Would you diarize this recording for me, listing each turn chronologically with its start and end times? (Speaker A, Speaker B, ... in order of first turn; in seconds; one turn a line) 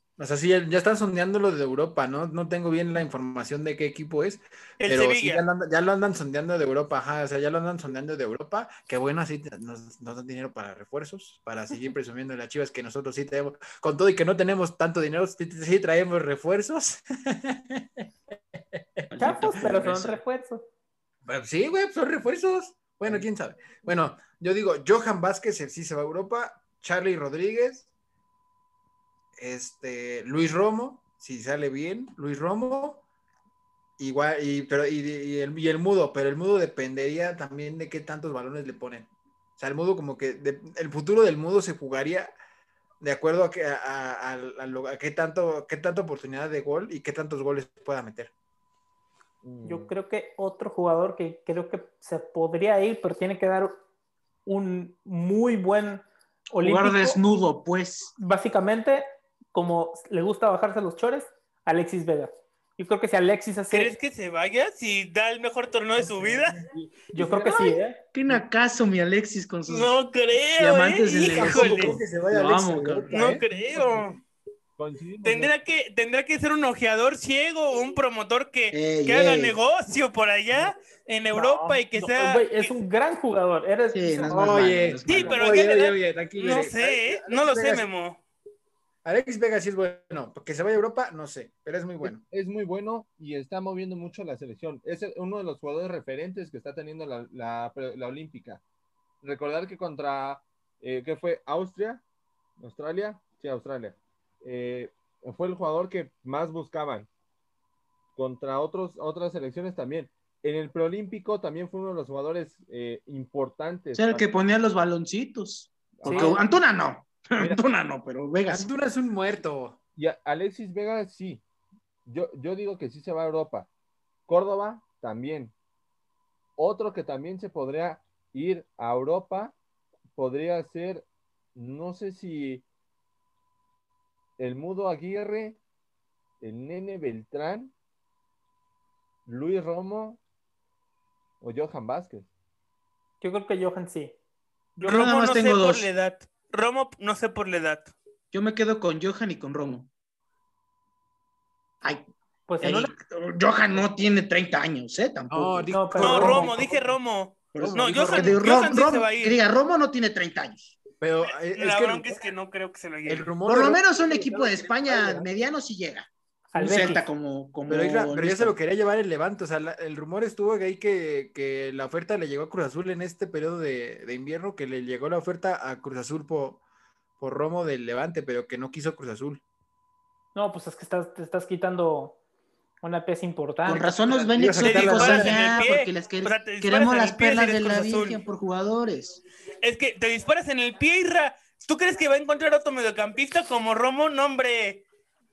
Speaker A: 0.2-19.1
Speaker B: 4.8-5.4
Speaker C: 19.1-20.2
Speaker D: 19.2-20.6
Speaker A: 21.2-27.9
Speaker A: 29.4-33.0
Speaker A: 34.0-42.3
Speaker A: 43.0-48.3
Speaker E: 49.4-49.9
Speaker D: 49.6-53.7
Speaker D: 54.5-57.2
Speaker C: 56.6-58.1
Speaker D: 58.2-64.0
Speaker B: 63.7-66.6
Speaker A: 66.1-66.6
Speaker D: 67.1-68.0
Speaker E: 67.2-67.5
Speaker C: 67.5-69.9
Speaker B: 69.7-72.0
Speaker C: 70.6-73.3
Speaker A: 71.3-74.2
Speaker B: 73.1-74.1
Speaker E: 74.8-75.5
Speaker B: 75.2-82.7
Speaker C: 78.7-79.6
Speaker D: 81.3-84.7
Speaker C: 83.9-85.6
Speaker A: 84.3-87.9
Speaker B: 85.0-88.2
Speaker A: 89.0-92.2
Speaker E: 92.0-98.6
Speaker E: 99.2-102.0
Speaker E: 102.6-107.1
Speaker E: 108.2-114.3
Speaker C: 113.9-118.7
Speaker E: 115.9-116.5
Speaker D: 116.0-116.4
Speaker A: 118.5-119.8
Speaker E: 120.0-121.4
Speaker E: 122.0-123.7
Speaker E: 124.3-125.5
Speaker E: 126.6-129.5
Speaker E: 130.1-132.6
Speaker E: 134.4-135.6
Speaker E: 136.4-137.7
Speaker E: 139.2-140.2
Speaker E: 141.4-142.3
Speaker D: 143.2-144.1
Speaker C: 144.8-145.9
Speaker B: 144.8-147.9
Speaker C: 148.3-149.9
Speaker C: 151.8-152.1
Speaker D: 152.5-152.9
Speaker C: 152.6-156.5
Speaker A: 155.3-156.7
Speaker D: 155.7-156.6
Speaker B: 156.0-159.4
Speaker C: 157.5-160.8
Speaker A: 157.6-158.4
Speaker A: 161.0-162.2
Speaker B: 161.5-163.3
Speaker A: 163.1-165.2
Speaker C: 163.4-168.5
Speaker D: 166.5-167.1
Speaker A: 167.7-176.6
Speaker A: 177.2-179.4
Speaker D: 180.3-182.2
Speaker D: 182.8-184.0
Speaker C: 183.6-189.2
Speaker A: 184.2-185.7
Speaker B: 184.6-188.2
Speaker B: 189.6-194.8